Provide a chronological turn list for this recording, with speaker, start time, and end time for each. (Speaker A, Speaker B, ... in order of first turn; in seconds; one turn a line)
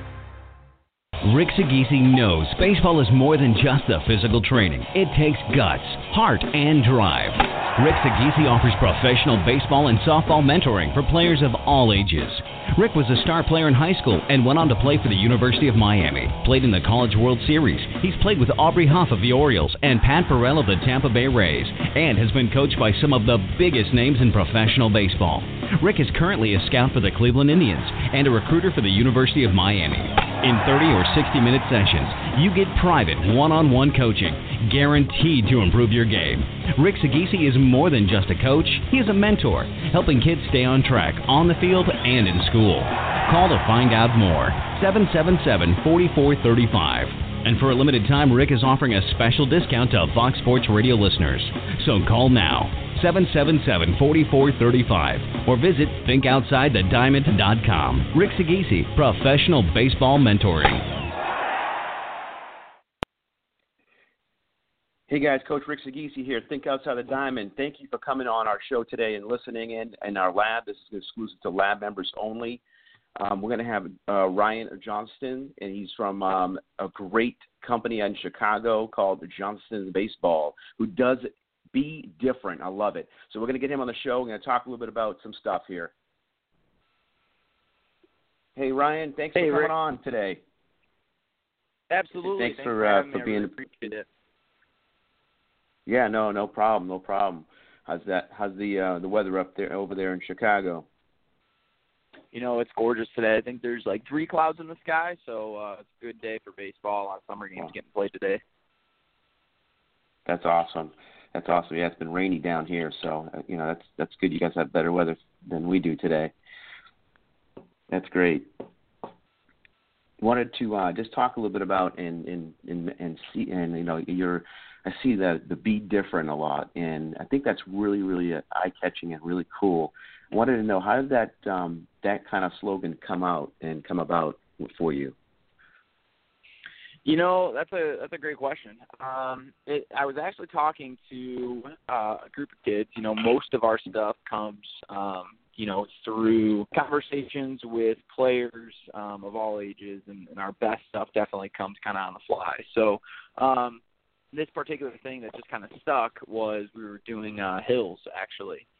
Speaker A: 1.2-60.8
Speaker B: 65.1-72.6
Speaker B: 73.2-85.9
Speaker B: 88.5-90.4
Speaker C: 89.3-89.7
Speaker C: 91.9-94.0
Speaker B: 92.2-93.5
Speaker B: 95.8-100.9
Speaker C: 102.3-108.4
Speaker B: 110.2-116.3
Speaker B: 117.9-118.5
Speaker B: 120.2-135.1
Speaker C: 137.0-153.8
Speaker C: 154.3-158.7